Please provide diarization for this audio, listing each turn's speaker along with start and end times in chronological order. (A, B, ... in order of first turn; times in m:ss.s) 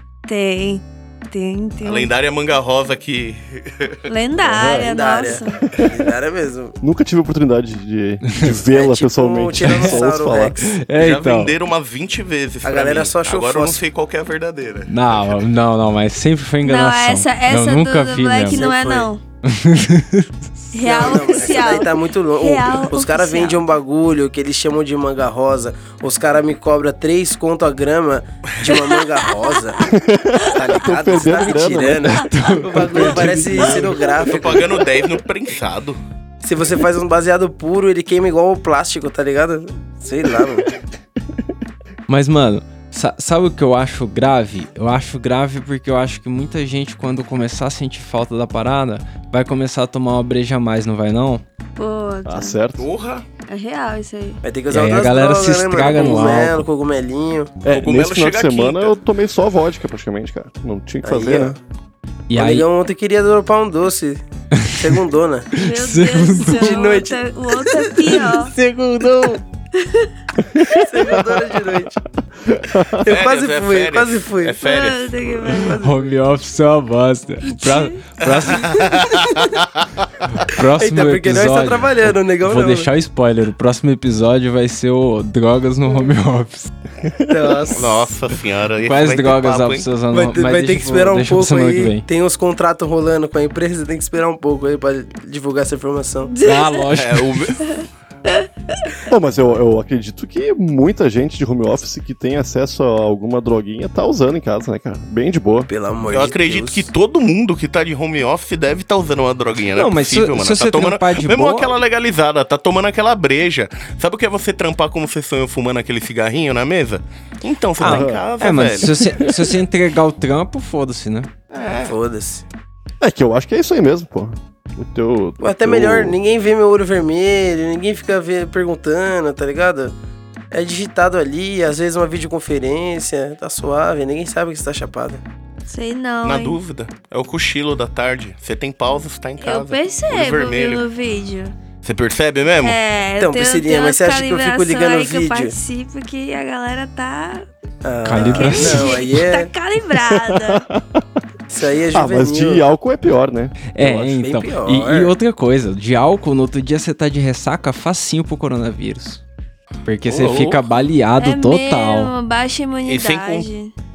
0:00.3-0:02.1 A
0:01.8-0:04.1 B
0:04.0-0:05.6 A
0:04.5-0:04.9 C
0:04.5-0:06.8 D
0:06.8-0:10.7 C
0:08.7-0:10.6 D
0:09.6-0:10.0 E
0:10.6-0:11.5 E
0:10.9-0:15.3 B
0:12.6-0:13.8 D
0:14.9-0:18.7 E
0:16.6-0:19.2 A
0:18.5-0:19.1 D
0:19.4-0:20.3 E
0:20.7-0:23.6 A
0:20.8-0:29.9 D
0:28.6-0:29.9 A
0:29.8-0:34.0 C
0:30.4-0:34.8 D
0:30.4-0:31.4 A
0:32.2-0:34.0 E
0:34.1-0:36.0 B
0:36.4-0:40.7 D
0:42.1-0:51.4 E
0:51.8-0:52.6 A
0:52.2-0:52.9 C
0:52.8-0:53.2 B
0:53.5-0:54.4 A
0:54.4-0:57.5 D
0:54.7-0:56.7 E
0:57.6-1:01.6 C
0:57.7-0:59.0 B
1:01.0-1:01.6 D
1:02.3-1:02.6 E
1:02.3-1:05.5 D
1:04.5-1:05.0 E
1:05.5-1:08.5 A
1:05.6-1:06.8 E
1:06.4-1:07.2 D
1:08.0-1:09.4 E
1:09.7-1:10.1 A
1:10.4-1:11.4 C
1:10.7-1:12.0 D
1:12.4-1:13.0 C
1:13.0-1:15.6 B
1:13.0-1:14.6 D
1:14.6-1:16.1 A
1:15.5-1:19.1 E
1:17.4-1:18.1 A
1:18.2-1:19.9 B
1:18.6-1:19.5 A
1:20.3-1:26.7 E
1:20.8-1:22.9 D
1:27.3-1:28.1 D
1:27.7-1:29.9 B
1:28.8-1:32.0 E
1:30.1-1:36.3 D
1:36.3-1:36.9 A
1:36.4-1:37.6 E
1:36.9-1:37.6 B
1:37.6-1:39.0 A
1:39.1-1:45.7 C
1:45.7-1:46.9 D
1:46.1-1:59.1 B
1:49.7-1:51.7 E
1:57.8-2:01.3 E
1:57.8-1:58.2 C
1:58.9-1:59.5 C
2:01.5-2:01.9 B
2:01.8-2:02.4 D
2:03.0-2:06.2 C
2:05.4-2:09.9 D
2:10.5-2:15.2 D
2:15.7-2:16.6 A
2:16.2-2:20.8 B
2:19.4-2:21.5 A
2:21.8-2:22.8 B
2:22.6-2:27.5 A
2:23.2-2:25.5 D
2:27.8-2:29.5 D
2:28.0-2:29.0 E
2:28.1-2:30.7 A
2:30.1-2:31.0 C
2:31.5-2:32.6 D
2:31.9-2:33.6 C
2:33.7-2:39.2 E
2:33.8-2:35.1 D
2:39.8-2:42.1 E
2:40.0-2:40.6 B
2:41.2-2:43.7 A
2:42.8-2:43.5 B